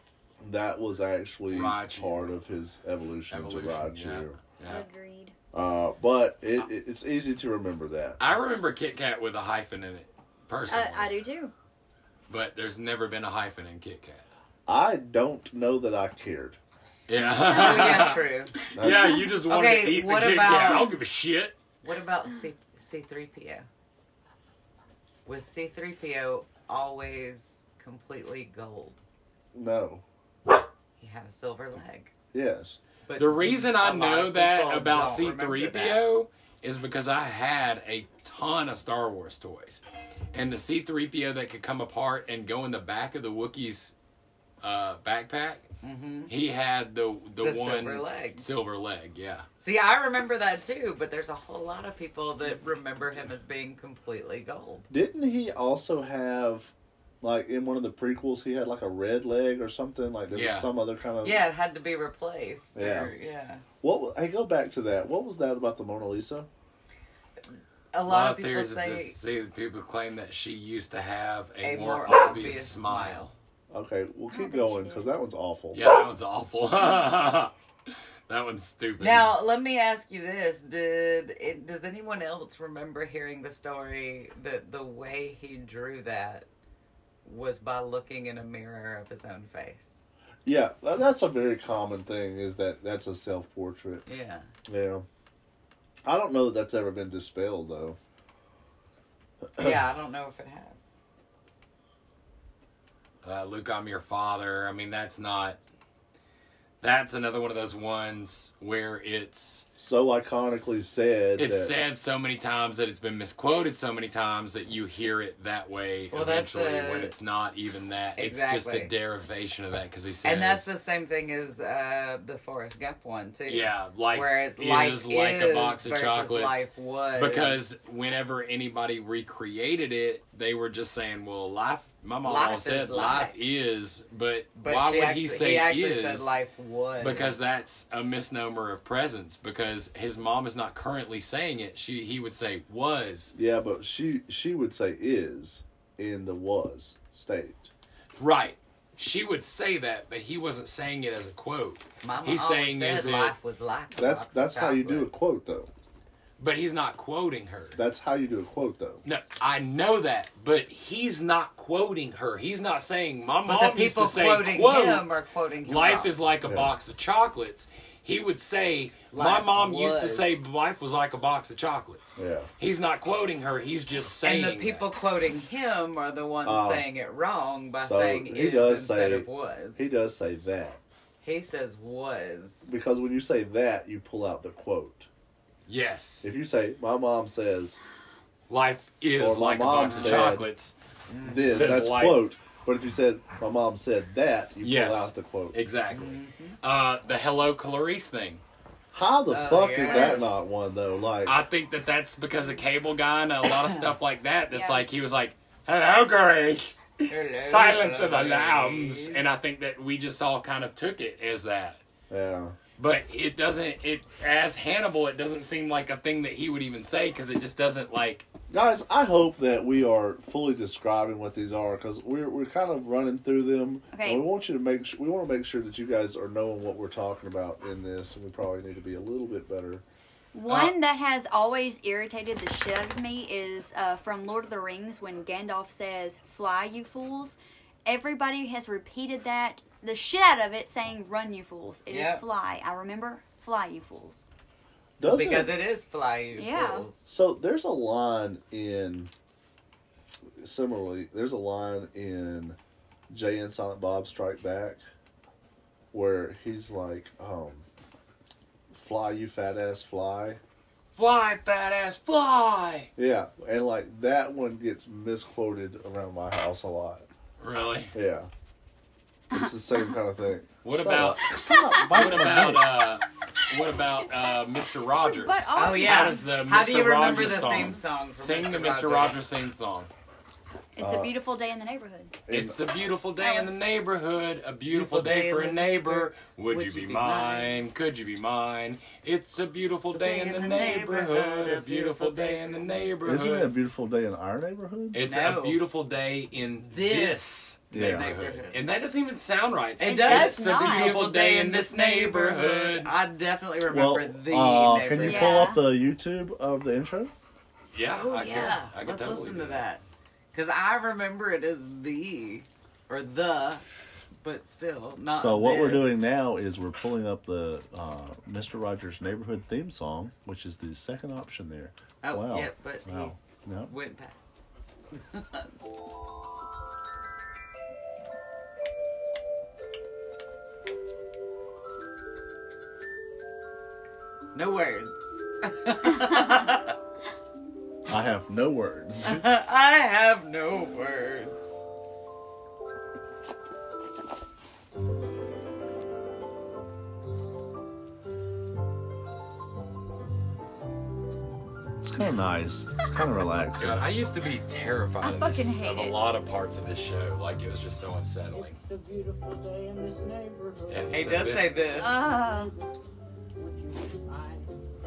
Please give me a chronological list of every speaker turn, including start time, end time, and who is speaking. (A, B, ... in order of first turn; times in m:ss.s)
0:00.4-0:04.4 A
0:01.5-0:02.3 B
0:03.3-0:04.9 B
0:04.7-0:05.4 C
0:05.5-0:08.2 A
0:08.2-0:11.2 B
0:10.7-0:11.5 C
0:12.3-0:14.2 B
0:14.7-0:16.6 A
0:17.1-0:21.6 B
0:17.5-0:18.6 D
0:17.5-0:18.1 C
0:18.7-0:19.2 A
0:18.9-0:19.3 C
0:19.5-0:20.9 D
0:21.8-0:23.7 D
0:25.3-0:29.0 D
0:29.5-0:30.0 A
0:31.0-0:32.1 D
0:32.3-0:32.8 A
0:33.1-0:36.0 D
0:33.2-0:39.8 B
0:40.3-0:44.0 B
0:44.6-0:45.7 B
0:45.8-0:46.3 D
0:46.3-0:49.5 B
0:47.4-0:48.4 D
0:49.6-0:54.9 D
0:54.9-1:01.4 A
1:00.3-1:00.7 B
1:01.2-1:03.6 D
1:02.8-1:03.1 A
1:03.8-1:06.5 A
1:07.9-1:09.2 D
1:08.1-1:13.3 B
1:11.6-1:13.3 D
1:13.7-1:15.9 A
1:14.3-1:15.1 C
1:15.7-1:17.5 B
1:18.3-1:19.3 B
1:19.0-1:26.5 D
1:27.2-1:30.1 D
1:30.4-1:34.0 A
1:34.1-1:34.5 D
1:34.7-1:35.1 A
1:36.0-1:38.0 A
1:39.6-1:39.8 A
1:39.6-1:40.9 D
1:43.2-1:45.6 B
1:46.8-1:49.7 B
1:49.8-1:51.7 A
1:51.4-2:00.7 B
1:56.1-1:57.1 D
1:58.2-1:58.9 D
2:00.2-2:08.0 D
2:03.5-2:16.4 B
2:12.2-2:13.4 D
2:14.6-2:17.4 D
2:17.0-2:23.3 B
2:23.3-2:27.7 A
2:28.2-2:33.3 B
2:32.0-2:35.2 D
2:34.0-2:35.7 A
2:36.4-2:37.8 B
2:37.8-2:39.0 A
2:39.0-2:54.8 B
2:43.5-2:46.1 D
2:46.4-2:46.7 A
2:49.1-2:50.3 D
2:52.2-2:52.5 A
2:54.2-3:00.0 D
2:56.4-2:56.9 A
2:57.8-3:00.8 A
3:01.2-3:02.8 D
3:02.7-3:05.1 A
3:05.7-3:06.3 B
3:06.2-3:07.8 A
3:08.5-3:10.8 B
3:09.2-3:10.5 A
3:10.0-3:10.3 D
3:11.1-3:11.9 D
3:11.2-3:15.6 A
3:11.5-3:12.3 B
3:14.6-3:18.4 B
3:15.9-3:16.6 D
3:18.9-3:21.4 A
3:19.3-3:20.4 D
3:19.8-3:20.2 C
3:21.2-3:31.8 B
3:23.6-3:23.9 D
3:24.5-3:24.8 C
3:27.1-3:29.2 D
3:32.1-3:32.6 A
3:32.8-3:38.3 B
3:38.5-3:49.8 A
3:43.9-3:44.2 C
3:50.3-4:04.2 C
3:50.5-3:50.8 B
4:01.9-4:02.2 D
4:05.0-4:05.6 A
4:05.0-4:07.1 D
4:06.4-4:06.9 C
4:07.1-4:09.1 A
4:10.4-4:12.6 A
4:13.1-4:14.8 A
4:15.9-4:17.6 A
4:18.7-4:20.4 A
4:21.0-4:22.9 B
4:23.0-4:27.1 A
4:27.4-4:27.9 B
4:27.9-4:28.3 A
4:29.3-4:32.7 A
4:29.3-4:29.8 C
4:30.6-4:39.9 B
4:35.0-4:36.3 C
4:35.6-4:39.2 D
4:40.8-4:42.2 C
4:40.8-4:41.1 A
4:42.3-4:42.6 A
4:42.3-4:53.5 B
4:43.2-4:43.6 C
4:44.7-4:47.6 D
4:49.9-4:52.9 D
4:53.0-4:55.0 A
4:54.9-5:02.9 B
4:55.0-4:55.6 D
4:56.7-4:58.6 D
4:57.7-4:58.1 A
4:59.8-5:05.5 D
4:59.9-5:01.0 C
5:03.7-5:07.1 A
5:05.0-5:05.6 C
5:07.7-5:09.6 B
5:07.9-5:13.6 D
5:14.2-5:16.1 D
5:15.1-5:23.7 A
5:22.0-5:24.2 D
5:24.9-5:25.5 D
5:34.3-5:36.8 D
5:37.9-5:39.2 A
5:39.0-5:41.5 D
5:51.8-5:53.8 A
5:53.6-5:58.6 B
5:55.0-5:56.0 C
5:58.3-6:02.8 E
6:00.7-6:01.6 B
6:00.9-6:02.0 D
6:01.8-6:02.5 C
6:03.4-6:04.6 E